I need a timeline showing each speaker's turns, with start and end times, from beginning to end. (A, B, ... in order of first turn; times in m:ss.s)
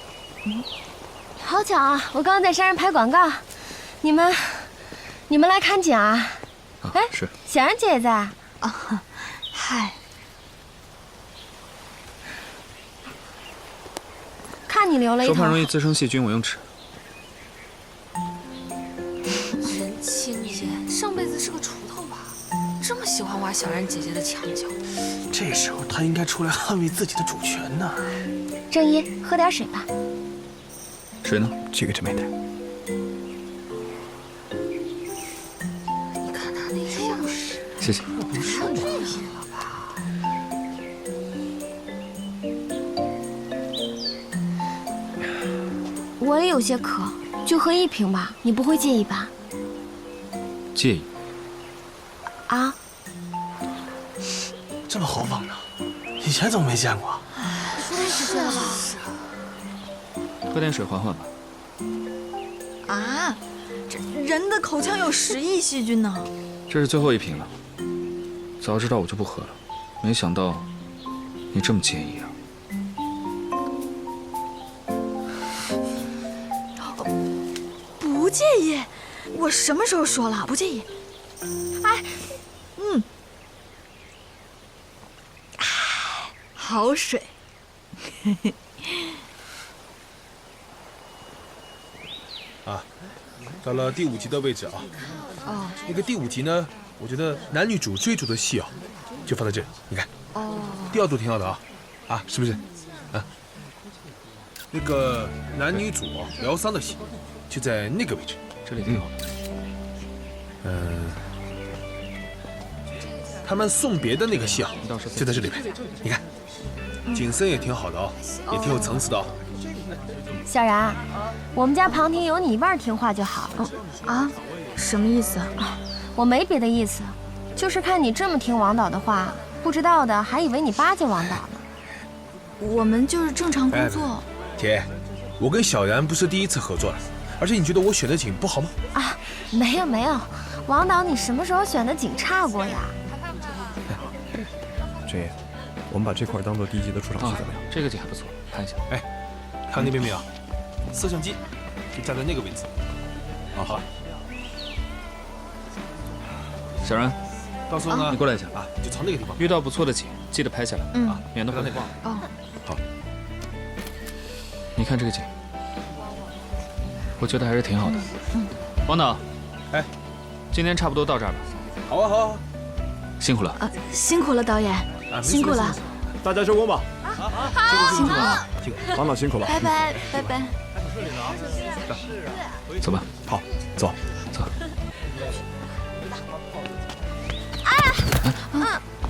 0:01.4-0:03.5 A
0:04.0-0:04.7 A
0:05.3-0:06.4 A
0:06.8-0:07.3 B
0:06.9-0:08.4 A
0:08.6-0:10.0 C
0:14.7-0:15.7 A
0:15.2-0:16.6 B
0:19.8-0:21.9 D
0:21.5-0:22.1 C
0:22.8-0:24.7 D
0:23.1-0:23.4 C
0:25.3-0:28.2 E
0:28.7-0:29.9 A
0:31.2-0:31.5 B
0:31.7-0:32.3 F
0:36.2-0:37.2 D
0:37.8-0:38.1 B
0:38.3-0:39.0 E
0:38.4-0:39.9 D
0:46.2-0:49.3 A
0:50.8-0:51.1 B
0:52.5-0:52.8 A
0:54.9-0:55.6 E
0:56.2-0:57.2 E
0:57.7-0:58.9 C
0:57.8-0:58.8 A
1:00.5-1:01.3 B
1:02.9-1:06.3 C
1:06.7-1:07.5 B
1:08.6-1:10.6 B
1:11.5-1:12.3 B
1:16.8-1:17.1 C
1:18.0-1:20.9 C
1:21.8-1:23.1 C
1:26.4-1:27.3 C
1:33.6-1:34.9 G
1:35.5-1:35.8 C
1:35.9-1:38.7 G
1:39.3-1:40.1 G
1:40.4-1:40.9 C
1:40.9-1:42.6 G
1:44.7-1:47.0 G
1:47.5-1:48.4 G
1:48.6-1:49.1 B
1:50.6-1:51.2 G
1:53.4-1:56.2 G
1:54.3-1:55.5 B
1:57.1-1:59.3 G
1:58.5-1:58.8 C
2:00.4-2:01.0 A
2:01.5-2:03.6 A
2:03.6-2:05.5 C
2:05.6-2:11.6 A
2:12.6-2:14.2 C
2:13.7-2:14.9 G
2:15.4-2:18.7 G
2:18.9-2:23.0 A
2:25.1-2:25.4 F
2:25.9-2:27.6 F
2:27.2-2:28.8 B
2:29.7-2:30.3 G
2:30.9-2:31.4 G
2:32.0-2:32.7 G
2:33.6-2:33.8 G
2:36.8-2:37.2 B
2:37.7-2:39.4 G
2:37.9-2:38.2 C
2:38.1-2:38.6 B
2:39.4-2:41.9 B
2:40.9-2:41.2 C
2:41.5-2:41.9 G
2:42.0-2:42.3 C
2:44.8-2:45.3 B
2:47.2-2:48.1 B
2:47.9-2:48.5 C
2:48.9-2:49.2 B
2:50.5-2:51.5 B
2:51.9-2:52.4 G
2:53.2-2:53.6 B
2:53.6-2:55.8 C
2:55.1-2:55.8 G
2:56.2-2:56.9 F
2:57.6-2:58.5 C
2:57.6-2:58.8 G
2:58.9-2:59.7 F
2:59.4-3:00.6 C
3:02.8-3:03.1 B
3:03.2-3:04.0 F
3:07.6-3:08.8 A